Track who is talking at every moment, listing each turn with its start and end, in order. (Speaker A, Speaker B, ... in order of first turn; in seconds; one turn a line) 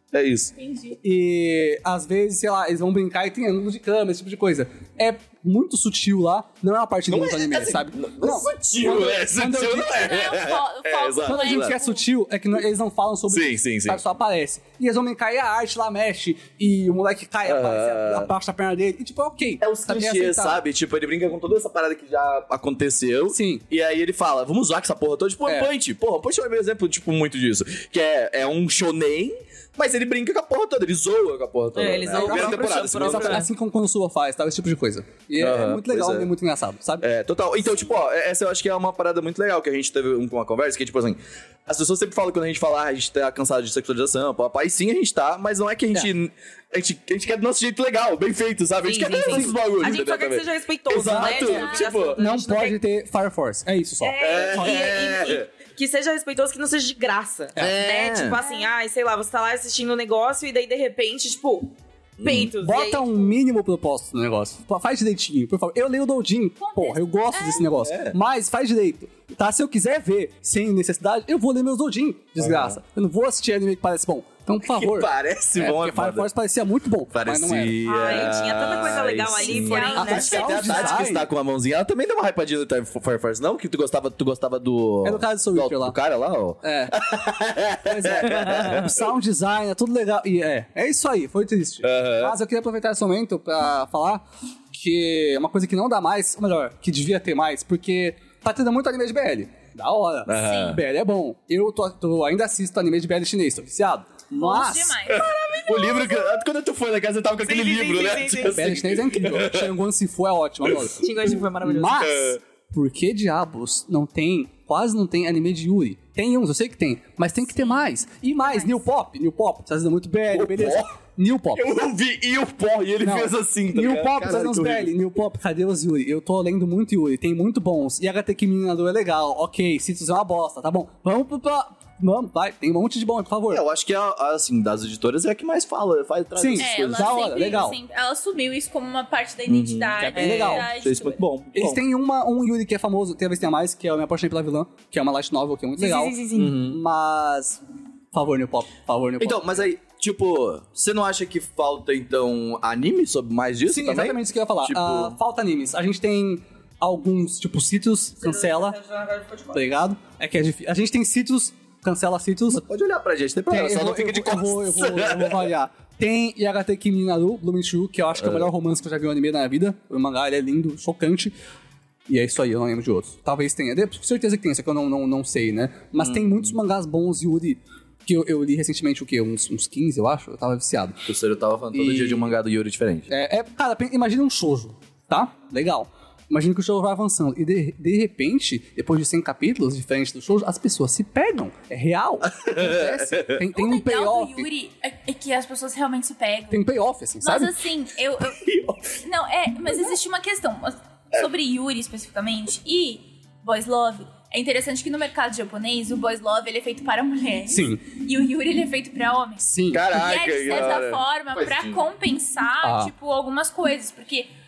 Speaker A: 0.1-0.5
Speaker B: 0.6-1.0
Speaker C: 1.0-10.1
Speaker A: 7.1-11.7
Speaker B: 9.8-12.1
Speaker C: 11.2-20.6
Speaker A: 13.3-14.0
Speaker A: 17.4-18.3
Speaker A: 19.6-33.5
Speaker C: 23.3-23.6
Speaker C: 25.5-25.7
Speaker D: 31.8-33.5
Speaker C: 32.2-37.0
Speaker A: 35.4-36.3
Speaker A: 37.0-52.2
Speaker B: 37.7-38.0
Speaker D: 48.9-52.8
Speaker C: 49.3-49.5
Speaker C: 51.0-51.4
Speaker B: 51.3-52.1
Speaker C: 52.2-55.0
Speaker D: 54.0-63.3
Speaker A: 54.2-55.5
Speaker A: 57.6-58.4
Speaker B: 58.4-58.7
Speaker A: 62.2-62.5
Speaker C: 62.6-77.8
Speaker B: 66.6-67.7
Speaker A: 67.6-68.2
Speaker A: 72.4-72.8
Speaker A: 74.6-76.3
Speaker A: 77.1-89.0
Speaker D: 77.8-80.7
Speaker B: 79.3-81.1
Speaker C: 80.0-81.3
Speaker C: 85.0-86.0
Speaker C: 86.6-87.0
Speaker C: 87.8-105.0
Speaker A: 91.8-92.4
Speaker A: 100.3-100.8
Speaker B: 100.4-100.8
Speaker B: 104.3-105.4
Speaker A: 105.1-109.7
Speaker D: 105.2-106.1
Speaker D: 107.4-108.8
Speaker C: 108.5-111.1
Speaker D: 111.0-112.3
Speaker C: 111.6-121.6
Speaker A: 112.0-112.4
Speaker B: 117.5-117.9
Speaker B: 118.4-118.8
Speaker A: 120.3-120.9
Speaker A: 121.5-124.9
Speaker C: 123.0-133.6
Speaker A: 133.5-137.6
Speaker C: 136.4-137.8
Speaker B: 136.6-141.2
Speaker A: 139.5-141.8
Speaker C: 140.0-140.7
Speaker D: 140.1-140.7
Speaker C: 141.6-147.6
Speaker D: 145.8-146.6
Speaker A: 146.3-146.8
Speaker C: 148.1-149.6
Speaker A: 149.2-155.2
Speaker C: 153.7-158.8
Speaker D: 158.2-159.7
Speaker C: 159.5-162.6
Speaker A: 162.5-165.5
Speaker C: 163.5-171.3
Speaker A: 168.2-168.5
Speaker C: 172.1-181.1
Speaker A: 176.0-176.5
Speaker A: 181.1-183.1
Speaker C: 181.7-182.3
Speaker C: 183.1-194.5
Speaker A: 192.3-193.4
Speaker B: 193.5-196.7
Speaker C: 196.5-197.5
Speaker B: 197.2-198.4
Speaker A: 198.3-198.9
Speaker B: 199.0-214.3
Speaker C: 207.5-207.8
Speaker C: 209.4-209.8
Speaker A: 209.7-211.8
Speaker C: 212.6-212.9